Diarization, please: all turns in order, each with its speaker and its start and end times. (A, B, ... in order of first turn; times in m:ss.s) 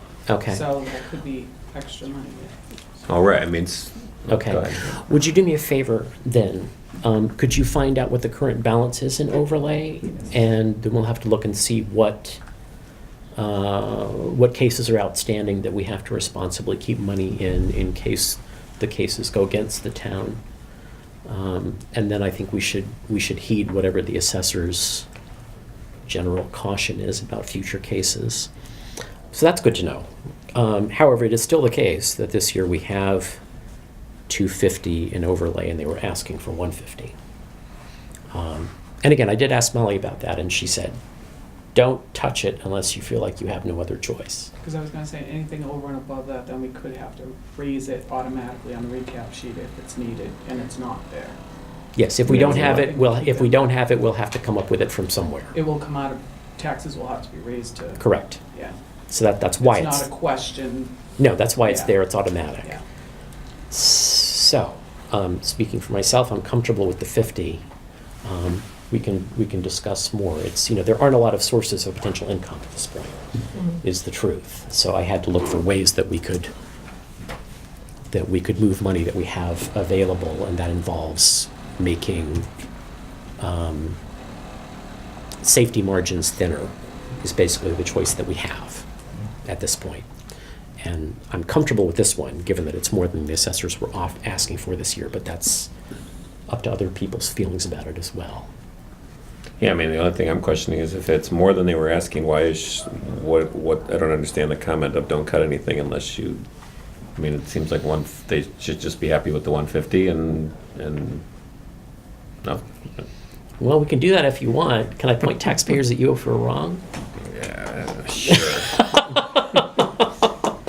0:00.3-0:00.6 A
0:00.5-0:02.6 B
0:03.1-0:04.9 C
0:04.3-0:12.4 A
0:13.4-0:20.4 A
0:21.2-0:25.1 A
0:26.1-0:28.5 A
0:29.3-0:33.4 A
0:34.3-0:37.1 A
0:38.3-0:41.0 A
0:41.7-0:44.5 A
0:44.6-0:51.4 B
0:52.0-0:55.5 A
0:52.3-0:53.6 B
0:55.5-0:58.8 B
0:58.0-0:58.4 A
0:59.1-1:00.0 A
0:59.6-1:01.0 B
1:01.2-1:02.8 A
1:01.7-1:01.9 B
1:03.7-1:07.6 A
1:08.2-1:16.5 A
1:18.1-1:22.5 A
1:23.4-1:24.0 A
1:25.4-1:28.9 A
1:29.4-1:30.1 A
1:30.8-1:35.7 A
1:36.5-1:38.5 A
1:39.6-1:46.4 C
1:47.2-1:51.2 C
1:52.4-1:53.0 C
1:53.6-1:56.8 A
1:57.2-1:58.8 C
1:58.3-1:59.9 A